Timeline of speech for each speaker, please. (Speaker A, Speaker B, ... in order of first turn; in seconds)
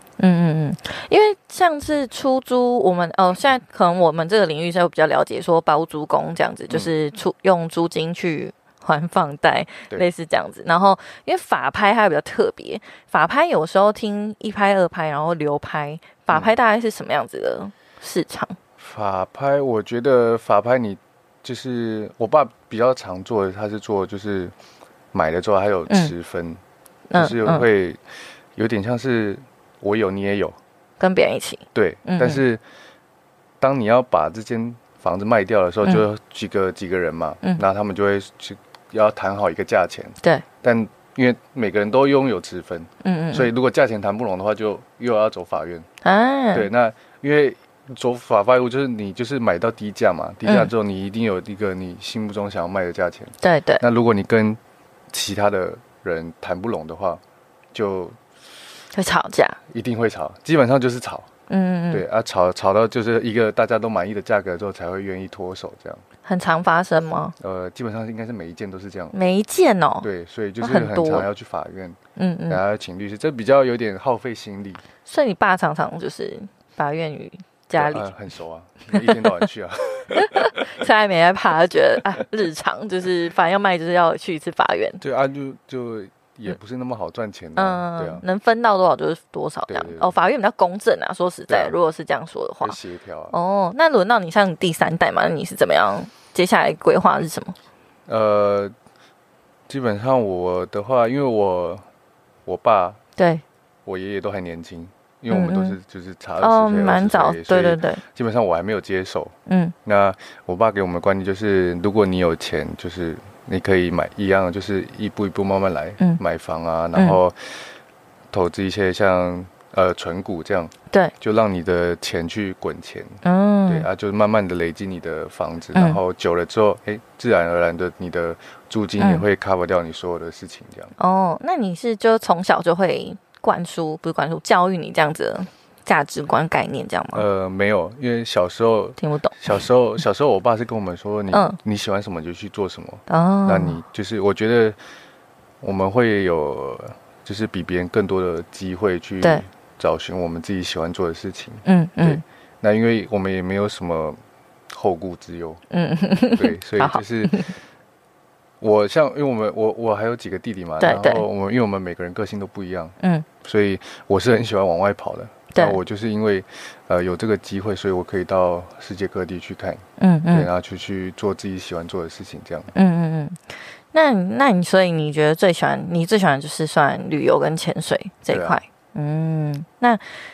Speaker A: 0.2-18.6, 27.1-27.6, 31.0-32.4, 43.0-43.5, 46.0-46.7, 53.4-53.8, 58.9-59.6, 61.5-62.0, 66.2-67.3, 69.1-70.1, 70.6-71.3, 72.2-72.6, 75.0-78.1, 78.9-79.3, 80.1-85.0, 87.6-92.8, 93.3-97.6, 103.2-103.4, 105.3-105.8, 106.4-108.0, 109.5-109.8, 123.2-123.9, 129.0-129.2, 131.0-137.2, 139.0-139.6, 141.3-141.6, 143.1-143.8, 151.7-152.2, 155.7-157.5, 160.8-161.2, 163.0-163.3, 165.5-165.8, 170.0-170.5, 172.7-173.4, 173.9-180.0
Speaker B: 18.8-24.5, 25.1-26.6, 27.2-28.0, 28.6-30.6, 31.8-32.6, 33.6-45.9, 46.5-54.6, 55.1-57.2, 57.7-58.2, 59.7-61.3, 61.9-66.0, 67.4-69.1, 70.0-74.8, 77.7-80.7, 85.0-88.2, 89.7-90.2, 91.5-91.8, 92.6-93.4, 98.1-98.7, 99.7-101.8, 102.5-103.0, 103.9-117.7, 118.3-130.9, 137.1-144.8, 145.6-154.2, 154.7-155.6, 156.3-157.5, 158.6-172.7, 178.3-178.6